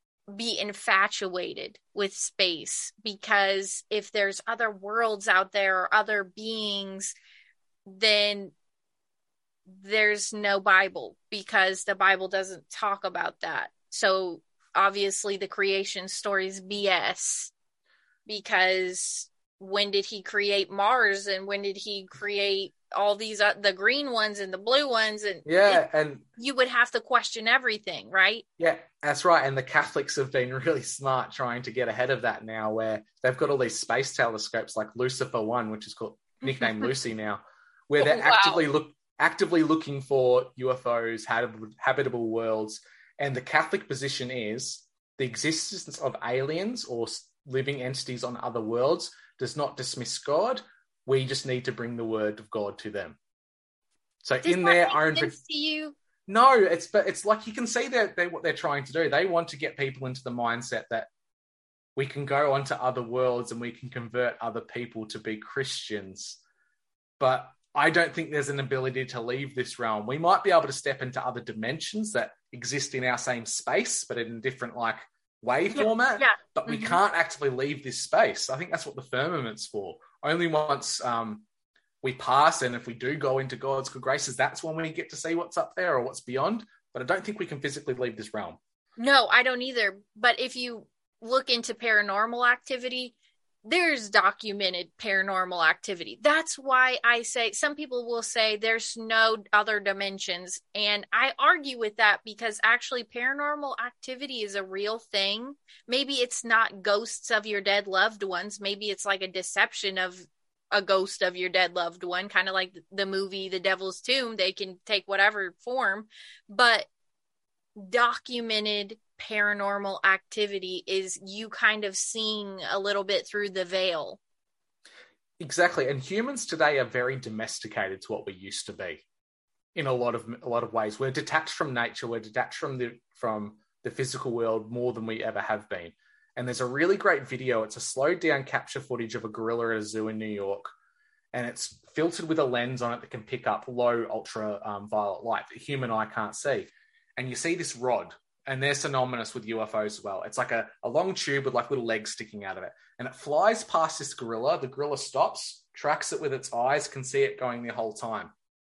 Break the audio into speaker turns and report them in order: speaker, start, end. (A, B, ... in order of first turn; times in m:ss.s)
0:00.3-0:07.1 A
0:07.8-0:08.5 A
0:09.7-0:17.5 A
0:18.3-0:25.8 A
0:25.4-0:26.2 B
0:26.4-0:28.4 A
0:28.6-0:53.2 B
0:36.4-0:36.9 A
0:38.0-0:38.7 A
0:54.2-0:55.4 B
0:54.4-0:56.0 A
0:56.3-1:01.1 B
1:02.0-1:06.4 B
1:07.2-1:21.4 B
1:15.7-1:17.0 A
1:22.0-1:28.6 B
1:29.0-1:56.9 A
1:57.8-2:04.2 A
2:05.4-2:09.0 B
2:09.8-2:20.7 B
2:21.3-2:38.3 B